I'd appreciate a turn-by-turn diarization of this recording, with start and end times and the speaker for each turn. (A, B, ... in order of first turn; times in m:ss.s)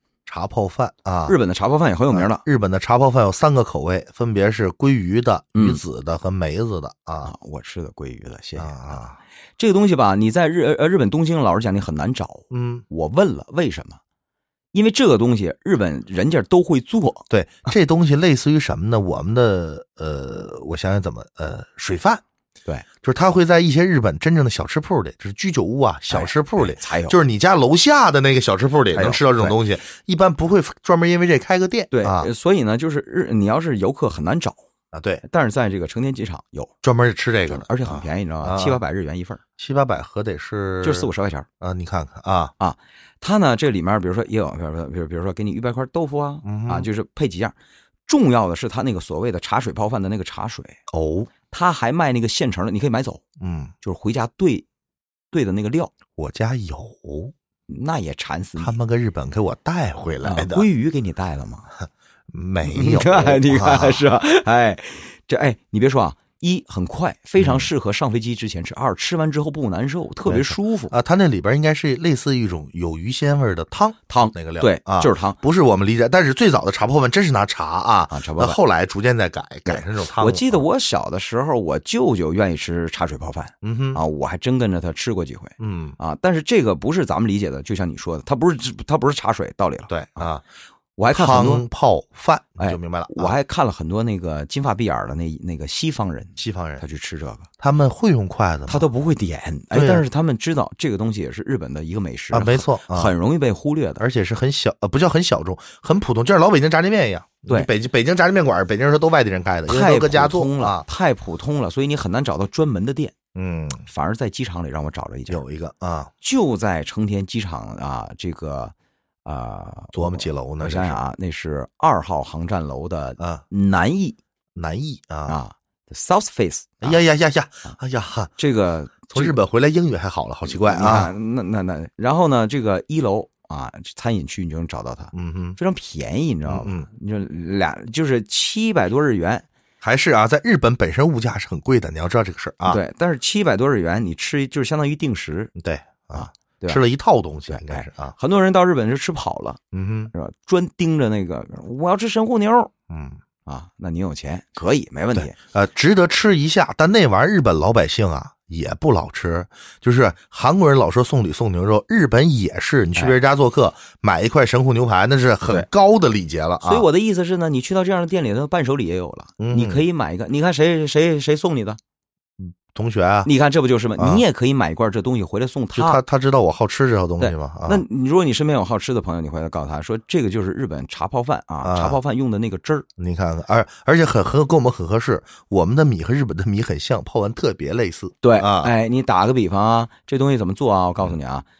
0:00.3-0:01.4 A
0:01.2-0:02.4 B
0:02.1-0:07.3 A
0:05.5-0:05.8 B
0:07.2-0:08.7 B
0:08.6-0:09.2 A
0:09.6-0:14.0 B
0:12.5-0:12.8 A
0:14.7-0:17.2 B
0:17.3-0:22.2 A
0:23.0-0:32.3 A
0:26.1-0:27.2 B
0:28.9-0:29.5 B
0:31.9-0:34.6 B
0:34.9-0:35.2 A
0:35.2-0:36.7 B
0:36.8-0:38.8 A
0:37.5-0:39.4 B
0:39.6-0:41.1 A
0:40.8-0:41.5 B
0:41.6-0:42.5 A
0:42.6-0:47.5 B
0:46.4-0:46.9 A
0:48.1-0:50.8 B
0:50.9-0:51.3 A
0:51.5-0:53.2 B
0:53.4-0:53.7 A
0:53.8-0:54.6 B
0:55.3-0:55.9 B
0:56.2-0:57.3 A
0:57.7-0:58.8 B
0:58.6-1:00.7 A
1:00.2-1:01.7 B
1:02.3-1:04.1 A
1:02.7-1:10.9 B
1:07.4-1:07.7 A
1:10.2-1:20.6 A
1:14.1-1:15.4 B
1:18.1-1:18.6 B
1:19.7-1:30.3 B
1:23.6-1:24.0 A
1:25.6-1:26.0 A
1:29.9-1:30.4 A
1:31.0-1:31.6 B
1:31.1-1:33.4 A
1:32.6-1:37.5 B
1:36.4-1:36.8 A
1:37.6-1:38.8 A
1:38.7-1:44.0 B
1:39.7-1:40.0 A
1:42.3-1:43.1 A
1:44.0-1:50.8 A
1:49.7-1:53.1 B
1:53.3-1:53.8 A
1:53.8-1:55.4 B
1:55.3-1:56.1 A
1:56.2-1:58.7 B
1:59.2-2:04.2 B
1:59.9-2:01.0 A
2:04.6-2:05.4 A
2:05.3-2:07.0 B
2:06.8-2:08.3 A
2:08.4-2:09.4 B
2:09.1-2:11.1 A
2:10.4-2:19.5 B
2:15.1-2:15.6 A
2:16.4-2:16.9 A
2:19.8-2:22.8 A
2:22.6-2:25.5 B
2:25.6-2:28.1 A
2:26.1-2:26.8 B
2:27.5-2:29.6 B
2:29.7-2:30.1 A
2:30.1-2:32.7 B
2:32.9-2:33.2 A
2:33.4-2:35.3 B
2:35.2-2:46.8 A
2:46.6-2:51.8 B
2:49.4-2:49.8 A
2:52.4-2:53.3 A
2:53.2-2:56.0 B
2:54.0-2:54.2 A
2:55.7-2:57.8 A
2:57.2-3:02.8 B
3:01.6-3:02.0 A
3:03.0-3:08.7 A
3:08.2-3:11.4 B